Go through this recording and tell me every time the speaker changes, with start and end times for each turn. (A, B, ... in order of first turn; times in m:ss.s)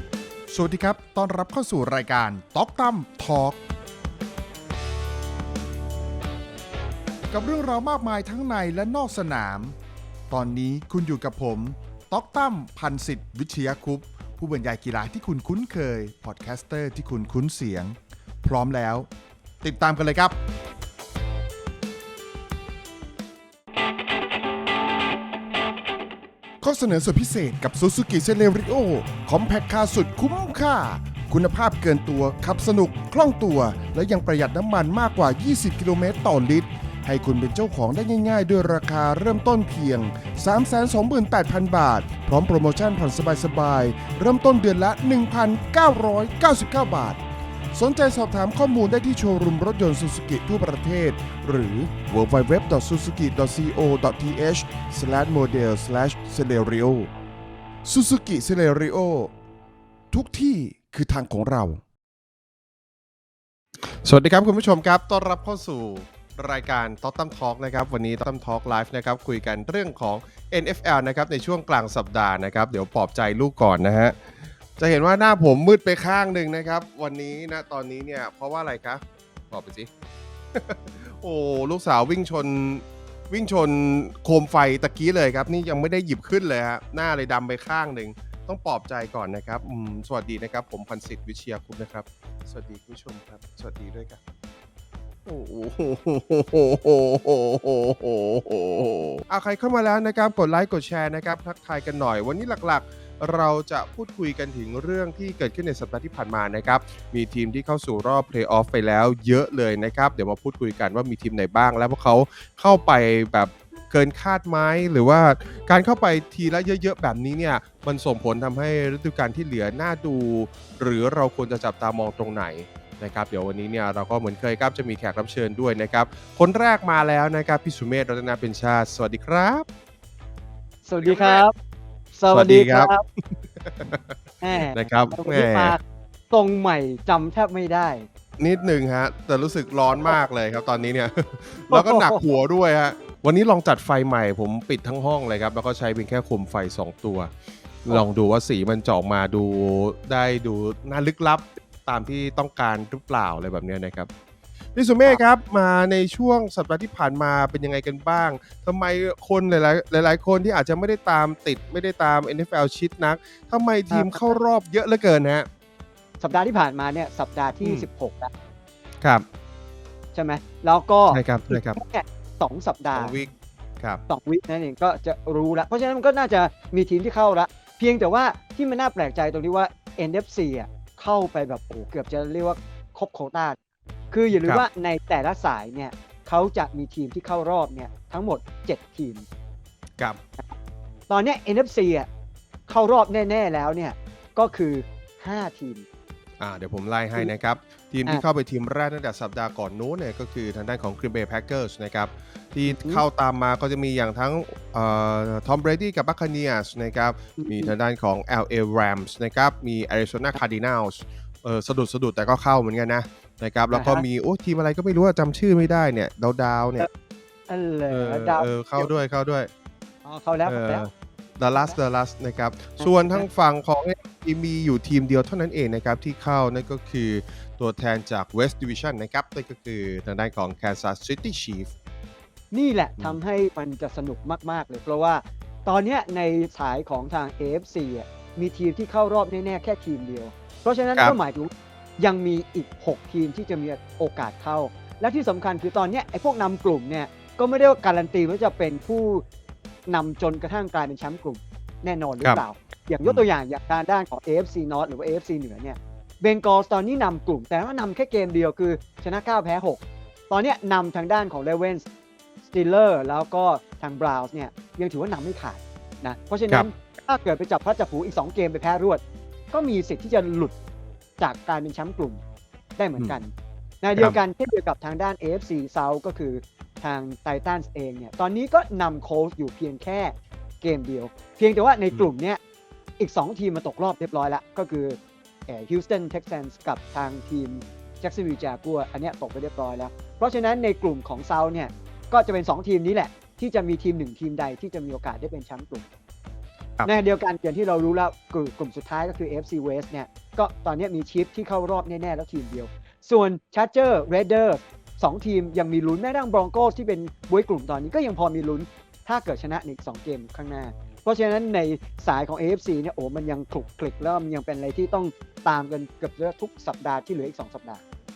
0:00.5-0:03.6 A
0:07.3-0:09.8 A
0:10.3-0:19.1 A
0:19.6-0:20.4 A
0:26.6-0:47.2 A
0:47.8-0:57.1 A
0:57.9-0:59.3 A
1:00.1-1:01.8 A
1:03.9-1:14.2 B
1:14.8-1:19.9 B
1:20.5-1:34.2 B
1:35.3-2:09.7 B
2:10.8-2:11.5 C
2:11.0-2:11.5 B
2:12.1-2:13.0 C
2:12.3-2:14.2 B
2:14.4-2:18.1 C
2:14.7-2:15.8 B
2:18.4-2:27.3 B
2:21.7-2:22.2 C
2:27.8-2:34.1 B
2:34.8-2:45.5 B
2:43.9-2:44.4 C
2:46.2-2:48.3 C
2:47.6-2:47.9 B
2:50.1-2:53.2 C
2:51.1-2:51.8 B
2:53.0-2:54.0 B
2:54.1-3:03.6 C
3:04.1-3:09.2 C
3:11.1-3:12.1 C
3:12.7-3:15.8 C
3:16.4-3:36.9 B
3:22.7-3:23.0 C
3:27.4-3:27.7 C
3:33.7-3:34.0 C
3:37.5-3:38.9 C
3:37.9-3:39.5 B
3:40.0-3:40.9 C
3:40.5-3:51.7 B
3:41.5-3:41.8 C
3:42.8-3:43.3 C
3:52.5-4:09.2 C
4:09.9-4:21.9 C
4:22.4-4:30.6 C
4:31.2-4:32.2 C
4:32.8-4:42.4 C
4:43.0-4:55.9 C
4:56.8-5:17.8 C